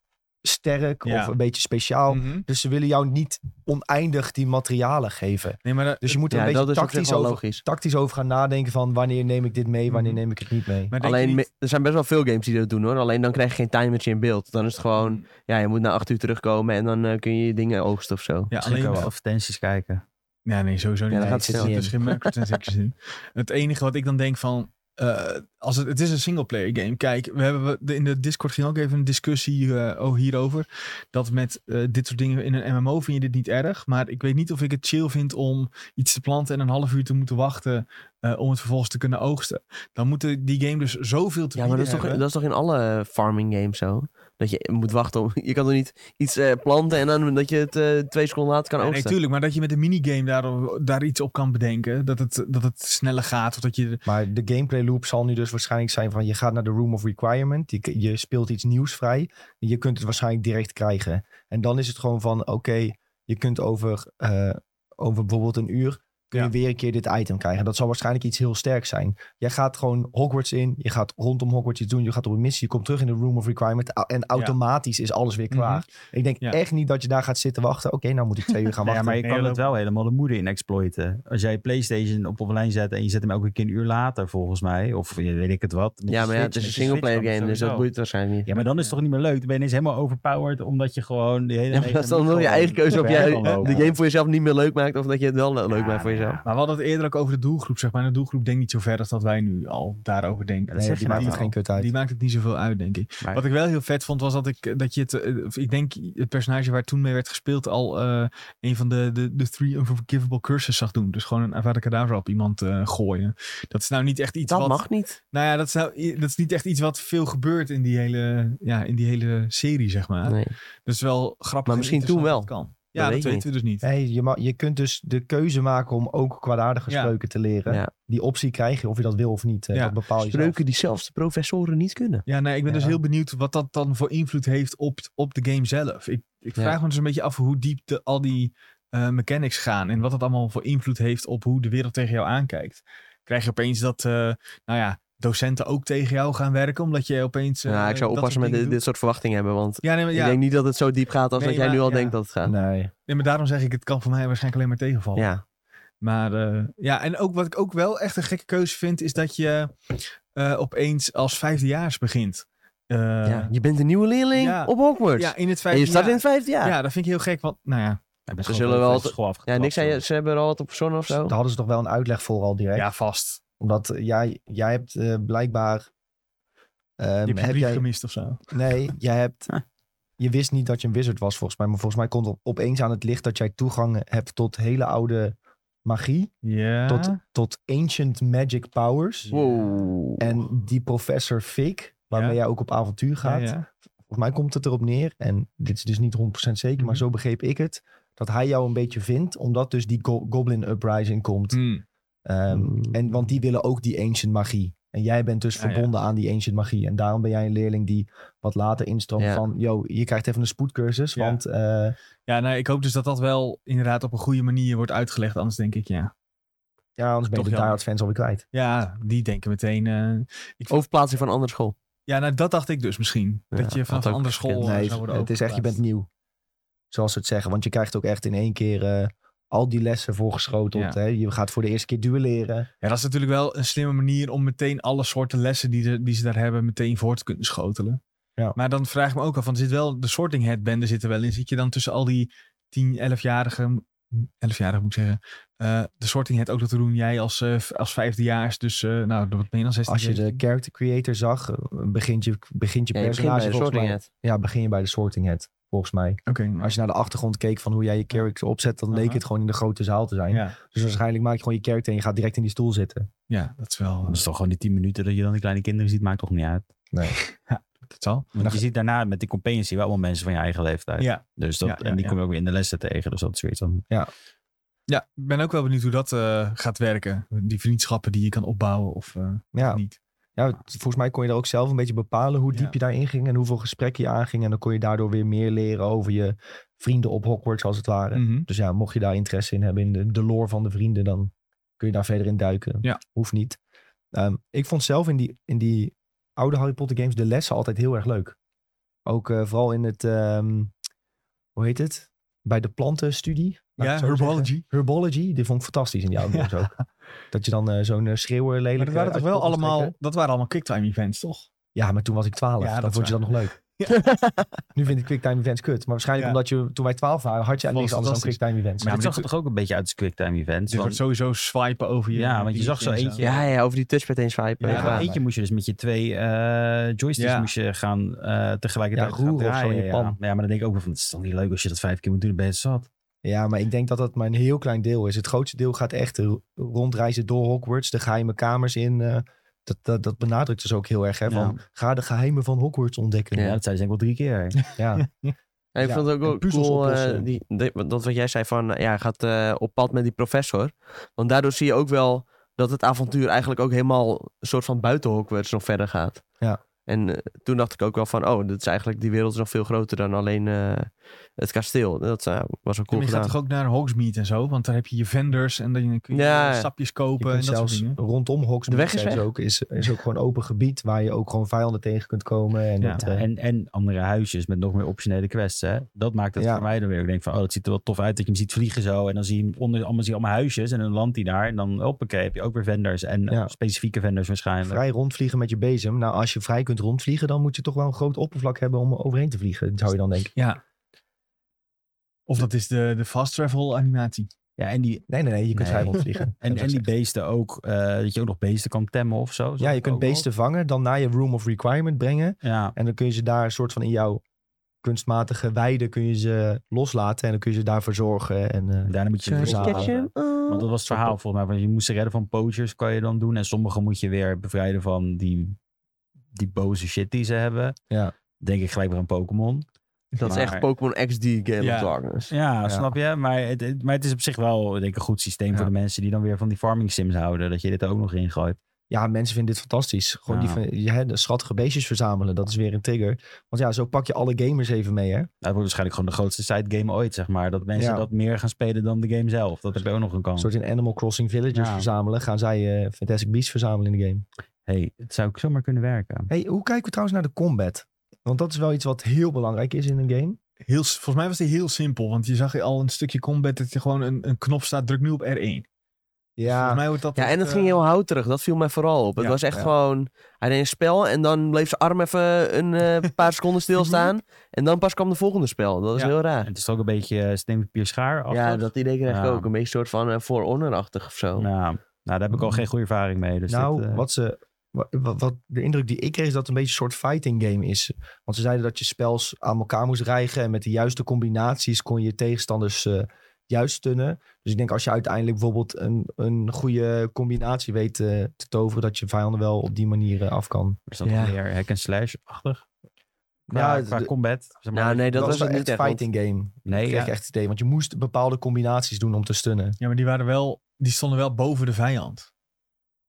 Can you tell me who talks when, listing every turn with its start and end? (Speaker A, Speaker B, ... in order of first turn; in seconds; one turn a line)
Speaker A: 0.4-10.9
Speaker B: 1.1-1.4
Speaker B: 2.1-2.4
Speaker B: 5.6-6.2
Speaker C: 6.3-7.6
Speaker B: 9.9-10.2
Speaker B: 10.9-11.4
Speaker C: 11.0-18.5
Speaker B: 15.0-15.2
Speaker B: 18.5-19.1
Speaker D: 18.6-20.0
Speaker B: 20.4-42.2
Speaker C: 21.1-22.4
Speaker A: 21.1-21.9
Speaker C: 41.6-49.1
Speaker B: 48.8-54.0
Speaker A: 54.0-79.2
Speaker B: 75.5-75.9
Speaker D: 78.8-87.9
Speaker B: 79.2-79.6
Speaker C: 86.1-88.5
Speaker D: 88.5-94.0
Speaker B: 88.6-89.0
Speaker C: 91.7-96.4
Speaker B: 93.1-93.6
Speaker D: 95.7-96.5
Speaker B: 96.4-123.9
Speaker D: 100.7-101.5
Speaker A: 100.7-101.9
Speaker C: 114.5-115.2
Speaker C: 120.3-120.5
Speaker C: 121.7-123.5
Speaker A: 123.8-130.6
Speaker B: 126.9-127.1
Speaker C: 130.2-132.2
Speaker B: 132.3-148.8
Speaker A: 132.7-133.0
Speaker C: 147.7-152.5
Speaker B: 149.8-150.4
Speaker B: 151.4-152.2
Speaker A: 152.4-152.9
Speaker B: 153.1-155.3
Speaker C: 155.2-155.4
Speaker B: 156.0-163.5
Speaker C: 163.2-166.7
Speaker B: 164.3-168.0
Speaker D: 168.3-170.0
Speaker C: 168.4-171.4
Speaker A: 171.2-172.9
Speaker B: 172.7-173.4
Speaker A: 173.6-175.9
Speaker A: 177.0-177.8
Speaker B: 177.2-178.4
Speaker A: 178.5-179.5
Speaker A: 180.2-186.3
Speaker B: 186.4-187.2
Speaker A: 186.9-189.3
Speaker B: 189.3-189.6
Speaker C: 189.3-190.3
Speaker A: 190.2-193.6
Speaker B: 192.1-192.4
Speaker B: 193.2-193.7
Speaker A: 194.1-201.6
Speaker B: 196.8-197.0
Speaker B: 201.5-201.8
Speaker A: 202.3-211.9
Speaker C: 202.5-202.9
Speaker B: 205.6-205.9
Speaker B: 211.1-211.4
Speaker B: 212.3-216.1
Speaker A: 217.0-218.4
Speaker B: 217.3-217.8
Speaker B: 218.5-220.8
Speaker C: 220.7-221.7
Speaker B: 222.1-225.8
Speaker C: 223.5-224.9
Speaker A: 224.6-226.1
Speaker A: 226.9-232.7
Speaker B: 232.8-238.0
Speaker B: 238.6-250.4
Speaker A: 249.9-263.1
Speaker C: 252.9-254.1
Speaker B: 256.3-256.7
Speaker B: 258.9-259.2
Speaker B: 260.3-260.6
Speaker B: 263.3-264.2
Speaker D: 264.1-266.7
Speaker A: 266.9-267.2
Speaker B: 267.1-268.3
Speaker D: 268.4-273.8
Speaker B: 271.0-272.2
Speaker B: 274.9-280.0
Speaker A: 279.6-279.8
Speaker A: 280.4-293.6
Speaker B: 288.1-288.5
Speaker A: 294.1-298.4
Speaker A: 299.1-300.7
Speaker A: 301.6-306.7
Speaker B: 303.8-304.7
Speaker B: 306.3-306.7
Speaker A: 307.3-309.9
Speaker B: 308.8-311.5
Speaker A: 311.7-313.5
Speaker B: 312.6-314.1
Speaker C: 313.9-314.4
Speaker A: 314.7-319.0
Speaker B: 317.6-319.3
Speaker D: 318.8-321.0
Speaker B: 320.7-323.4
Speaker D: 322.1-323.3
Speaker C: 323.2-325.1
Speaker B: 324.6-325.1
Speaker D: 324.7-332.9
Speaker A: 324.7-325.2
Speaker B: 327.2-327.5
Speaker A: 328.9-330.2
Speaker A: 333.2-343.6
Speaker D: 341.3-341.6
Speaker D: 343.4-344.6
Speaker B: 344.7-345.3
Speaker A: 344.7-345.1
Speaker C: 345.7-356.2
Speaker A: 345.8-347.3
Speaker C: 356.9-363.4
Speaker B: 362.9-368.0
Speaker C: 366.1-366.7
Speaker A: 367.2-373.3
Speaker C: 368.7-369.3
Speaker D: 373.0-384.8
Speaker A: 376.4-376.7
Speaker A: 384.6-390.3
Speaker B: 390.4-390.6
Speaker B: 392.3-394.3
Speaker D: 394.6-400.3
Speaker A: 395.1-396.9
Speaker A: 399.6-404.2
Speaker D: 402.4-402.7
Speaker A: 404.8-409.9
Speaker D: 408.9-415.6
Speaker C: 409.3-410.7
Speaker D: 416.3-417.8
Speaker D: 418.4-419.7
Speaker C: 420.2-422.3
Speaker D: 420.2-420.7
Speaker B: 421.6-421.9
Speaker D: 422.3-428.6
Speaker A: 428.9-435.3
Speaker D: 430.3-430.6
Speaker D: 435.4-440.5
Speaker A: 437.8-438.1
Speaker A: 440.4-444.2
Speaker D: 441.5-441.9
Speaker D: 444.7-446.3
Speaker A: 446.3-450.4
Speaker B: 450.6-455.7
Speaker A: 456.4-456.8
Speaker B: 456.4-457.8
Speaker C: 457.2-466.5
Speaker B: 463.8-464.1
Speaker D: 466.4-469.5
Speaker C: 468.3-471.5
Speaker D: 471.4-474.1
Speaker A: 473.5-490.8
Speaker D: 490.9-492.6
Speaker C: 491.0-491.4
Speaker A: 493.5-494.1
Speaker D: 493.5-495.4
Speaker C: 494.7-496.0
Speaker A: 495.2-499.8
Speaker D: 496.7-497.1
Speaker B: 499.8-502.3